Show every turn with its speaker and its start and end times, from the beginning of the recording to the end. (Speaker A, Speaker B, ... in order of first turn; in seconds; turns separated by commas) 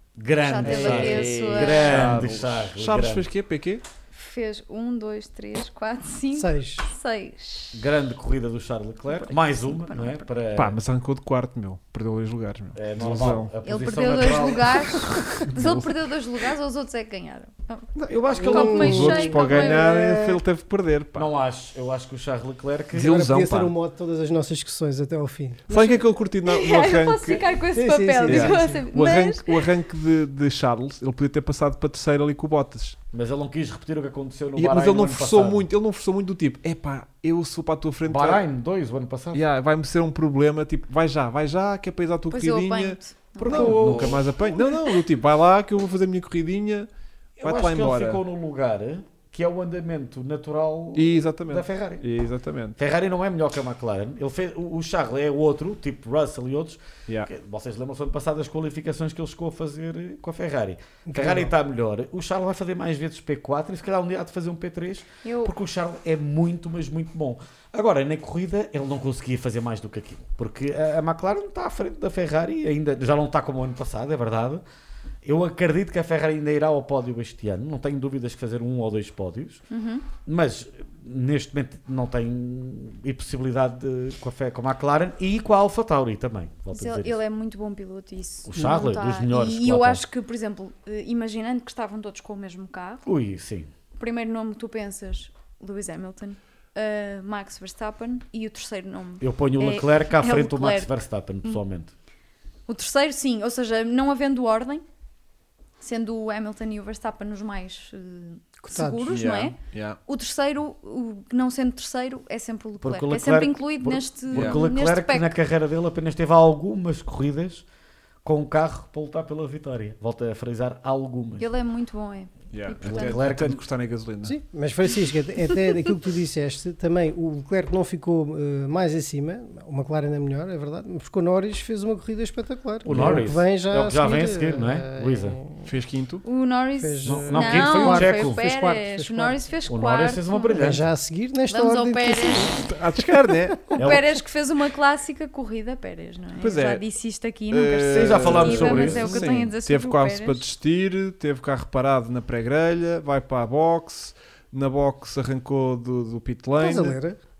Speaker A: 0.1-3.3, Speaker B: 0.4-1.9, Speaker C: 0.6-3.8, Speaker B: 4.1-7.8, Speaker D: 6.3-6.9, Speaker A: 7.7-10.8, Speaker B: 9.1-10.2, Speaker C: 10.5-13.5, Speaker A: 12.7-15.9, Speaker B: 13.6-17.9, Speaker C: 15.4-15.7, Speaker A: 18.0-19.2, Speaker D: 18.3-20.4, Speaker B: 18.4-19.9, Speaker C: 18.6-21.3, Speaker A: 21.1-23.1, Speaker C: 22.9-23.7, Speaker D: 23.0-26.0, Speaker C: 25.7-27.4, Speaker B: 26.4-29.6, Speaker D: 27.7-28.8, Speaker C: 28.3-33.0, Speaker A: 33.1-35.6, Speaker C: 34.5-38.4, Speaker A: 38.0-39.4, Speaker C: 39.3-46.9, Speaker B: 42.3-44.0, Speaker A: 43.4-44.2, Speaker A: 47.4-52.0, Speaker C: 47.4-48.2, Speaker C: 50.9-52.8, Speaker A: 52.8-74.6, Speaker D: 61.1-61.5, Speaker B: 65.2-65.5, Speaker A: 75.2-79.6, Speaker B: 79.7-80.0, Speaker A: 80.2-87.2, Speaker B: 86.7-93.0, Speaker A: 88.5-90.0, Speaker A: 93.0-93.7, Speaker B: 94.0-100.9, Speaker A: 99.2-101.9, Speaker B: 102.7-104.8, Speaker B: 105.8-109.5, Speaker D: 108.7-109.1, Speaker C: 109.1-110.0, Speaker B: 110.1-115.3, Speaker A: 112.8-117.6, Speaker C: 114.3-114.6, Speaker A: 118.2-121.5, Speaker B: 121.4-123.3, Speaker C: 122.5-124.3, Speaker A: 122.8-123.6, Speaker D: 124.2-135.7, Speaker A: 132.8-135.4, Speaker C: 135.6-136.2, Speaker B: 136.2-140.6, Speaker D: 136.8-139.4, Speaker A: 137.0-138.4, Speaker A: 139.7-140.8, Speaker D: 140.6-143.8, Speaker B: 141.5-142.6, Speaker C: 142.6-143.7, Speaker B: 143.7-150.4, Speaker A: 143.8-144.2, Speaker C: 146.4-146.8, Speaker C: 147.5-157.0, Speaker A: 147.9-149.3, Speaker D: 156.6-157.2